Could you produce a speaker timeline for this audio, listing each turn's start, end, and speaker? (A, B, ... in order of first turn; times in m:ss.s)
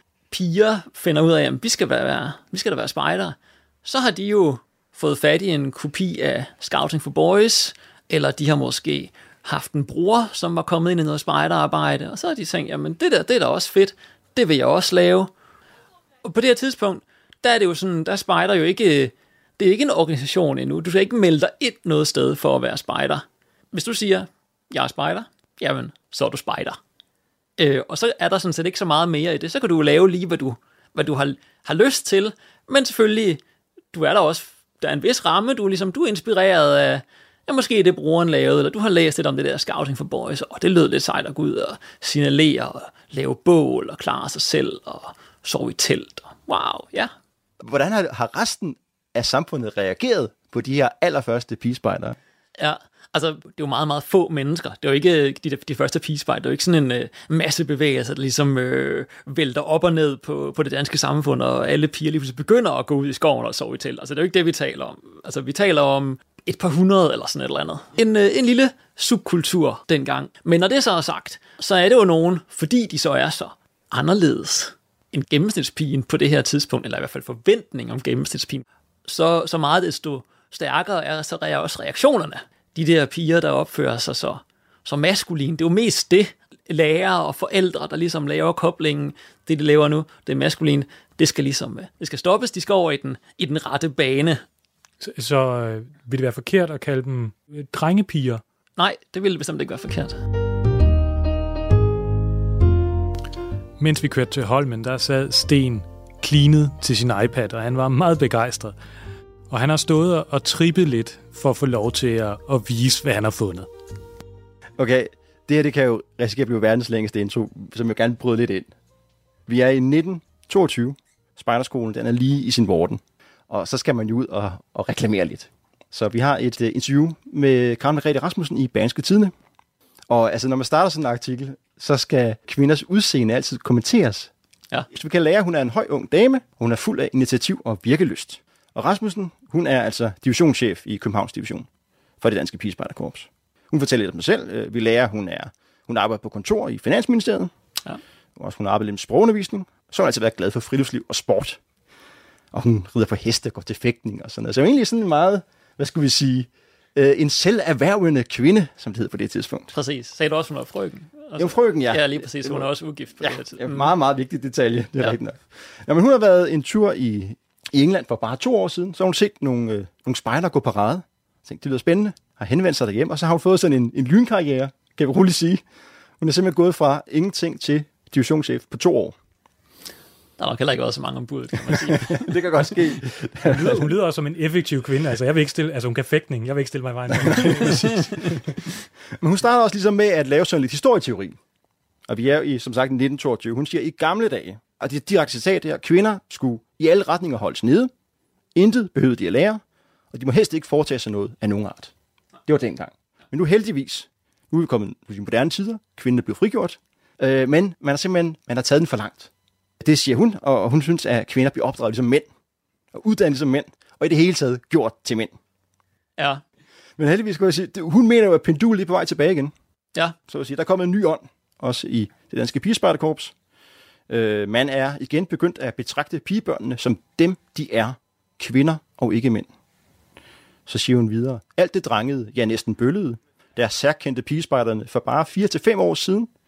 0:00.3-0:15.3 A
0:16.2-0:26.8 A
0:27.6-0:33.4 A
0:33.9-0:47.1 A
0:47.6-0:52.2 B
0:52.6-1:34.4 A
1:35.0-1:38.4 C
1:38.8-1:40.2 A
1:43.8-1:48.8 C
1:49.5-1:53.7 C
1:54.8-1:58.7 B
1:59.5-2:09.3 B
2:10.1-2:14.3 B
2:14.9-2:21.7 B
2:22.2-2:27.5 B
2:28.4-2:31.6 B
2:32.5-2:39.8 B
2:39.7-2:43.9 A
2:41.4-2:55.6 B
2:56.2-2:59.2 B
3:00.4-3:02.3 A
3:01.7-3:03.9 B
3:03.5-3:08.6 C
3:09.2-3:11.4 B
3:12.1-3:17.9 B
3:18.6-3:19.6 B
3:20.1-3:21.9 B
3:22.5-3:32.3 B
3:32.9-3:35.4 B
3:36.2-3:36.4 A
3:37.0-3:39.5 B
3:40.3-3:43.3 B
3:44.1-3:49.5 B
3:50.7-3:56.3 B